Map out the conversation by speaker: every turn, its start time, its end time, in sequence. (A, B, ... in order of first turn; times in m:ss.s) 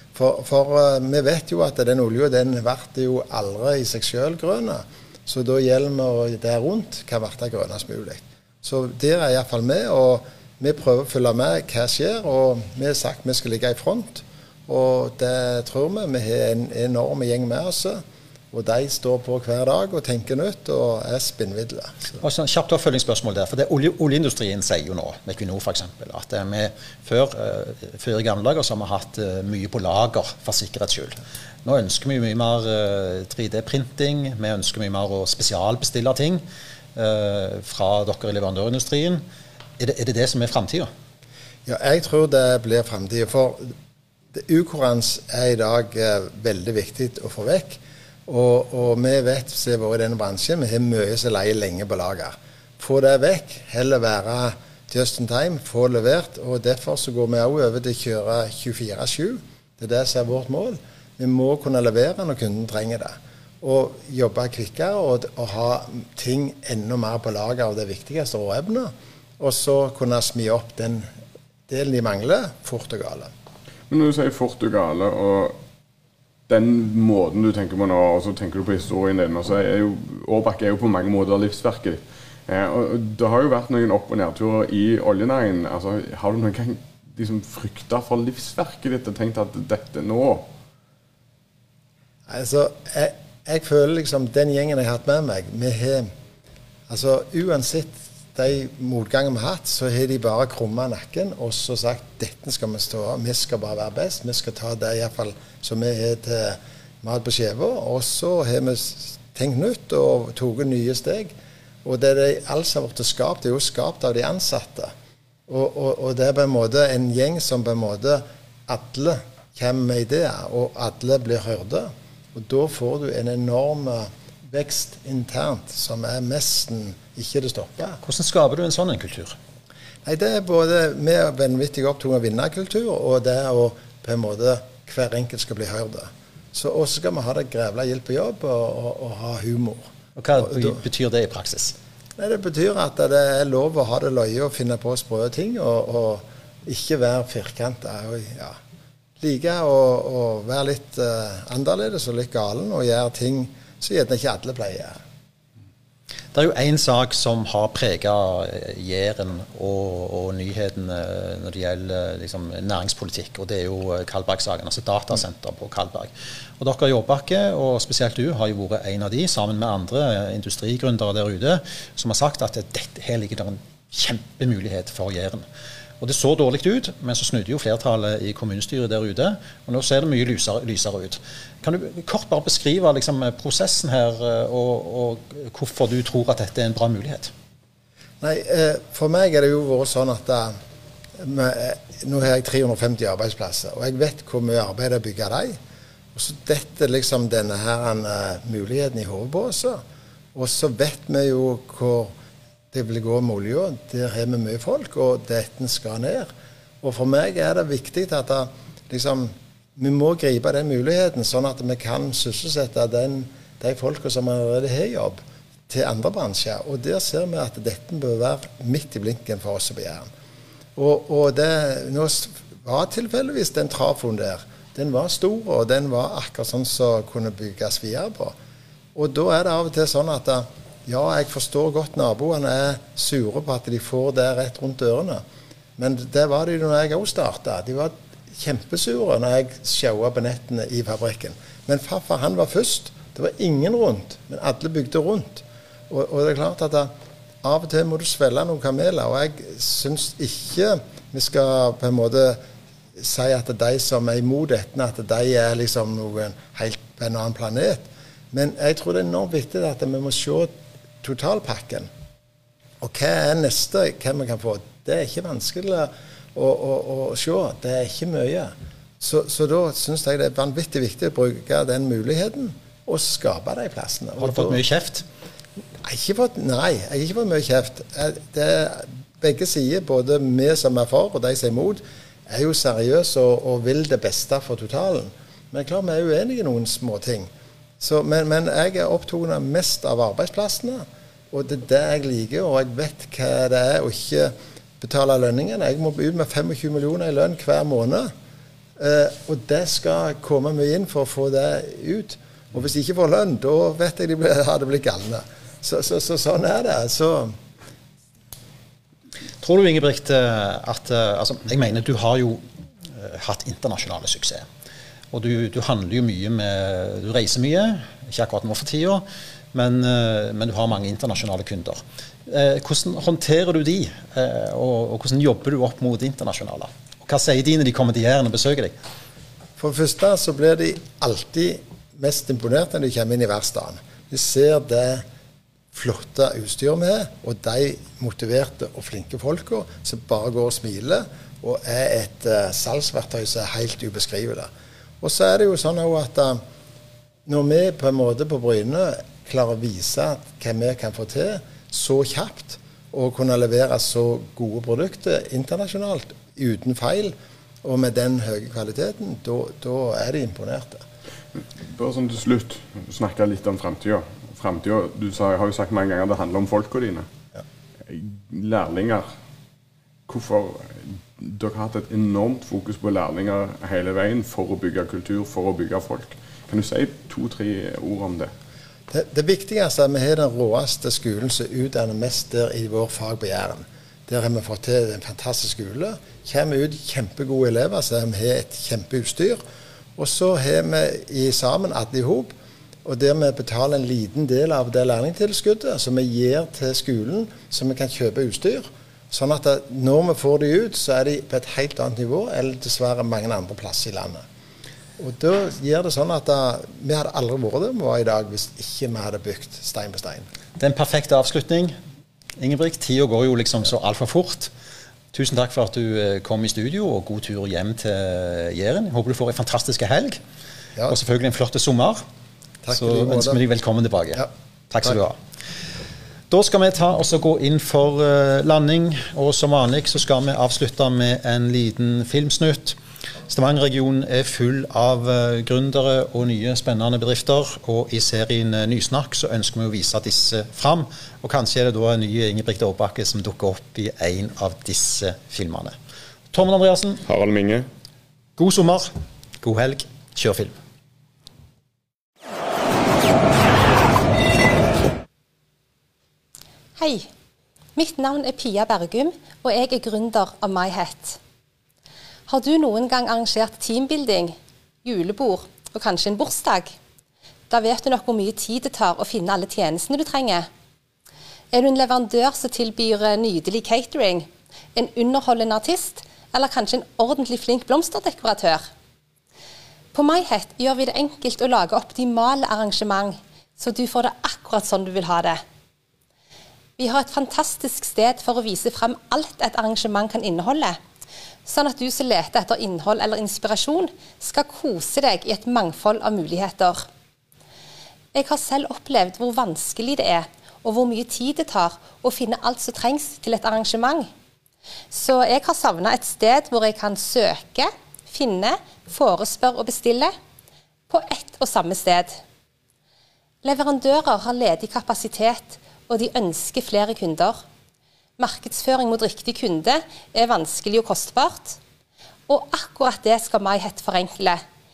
0:00.1-0:22.2 A
0:22.2-0:36.4 B
0:37.0-0:39.2 B
0:39.8-0:40.9 B
0:41.7-0:43.7 A
0:44.3-1:11.1 A
1:11.7-1:13.3 A
1:13.9-1:15.6 C
1:16.5-1:30.5 C
1:32.3-1:36.1 A
1:36.9-1:51.3 A
1:51.8-1:54.9 A
1:55.5-2:08.0 A
2:08.0-2:09.4 B
2:10.0-2:19.9 A
2:20.2-2:21.8 B
2:20.4-2:20.8 A
2:22.2-2:28.6 A
2:29.2-2:35.0 A
2:36.3-2:55.5 B
2:56.0-3:07.3 B
3:08.2-3:10.5 A
3:11.2-3:15.6 A
3:16.1-3:19.8 A
3:20.4-3:22.1 A
3:22.7-3:26.3 A
3:26.8-3:40.1 A
3:40.8-3:48.4 A
3:49.0-3:55.2 A
3:55.8-4:06.9 A
4:07.4-4:12.4 A
4:13.0-4:20.5 A
4:21.0-4:21.9 A
4:22.8-4:34.6 A
4:34.2-4:35.1 B
4:35.8-4:58.1 A
4:58.8-5:07.3 A
5:09.4-5:14.5 B
5:15.1-5:28.8 B
5:29.6-5:35.0 A
5:35.7-5:44.5 A
5:45.0-5:46.4 A
5:47.3-6:00.8 A
6:01.6-6:07.1 C
6:07.9-6:09.0 C
6:10.1-6:18.3 C
6:18.9-6:29.4 A
6:30.0-6:44.2 A
6:45.0-6:50.3 A
6:50.6-6:51.8 B
6:52.4-6:54.5 B
6:55.1-7:00.2 B
7:00.9-7:02.0 B
7:02.6-7:03.4 A
7:02.7-7:05.2 B
7:06.3-7:25.8 B
7:26.3-7:27.0 B
7:27.0-7:27.7 C
7:28.4-7:28.9 B
7:29.4-7:30.6 B
7:36.8-7:37.1 D
7:37.8-7:41.2 D
7:42.3-7:46.7 D
7:47.5-7:50.5 D
7:51.5-7:58.7 D
7:59.9-8:05.4 D
8:06.8-8:10.8 D
8:11.4-8:16.9 D
8:18.1-8:24.1 D
8:24.9-8:30.1 D
8:30.9-8:32.2 D
8:33.4-8:37.4 D
8:38.2-8:41.6 D
8:42.3-8:44.4 D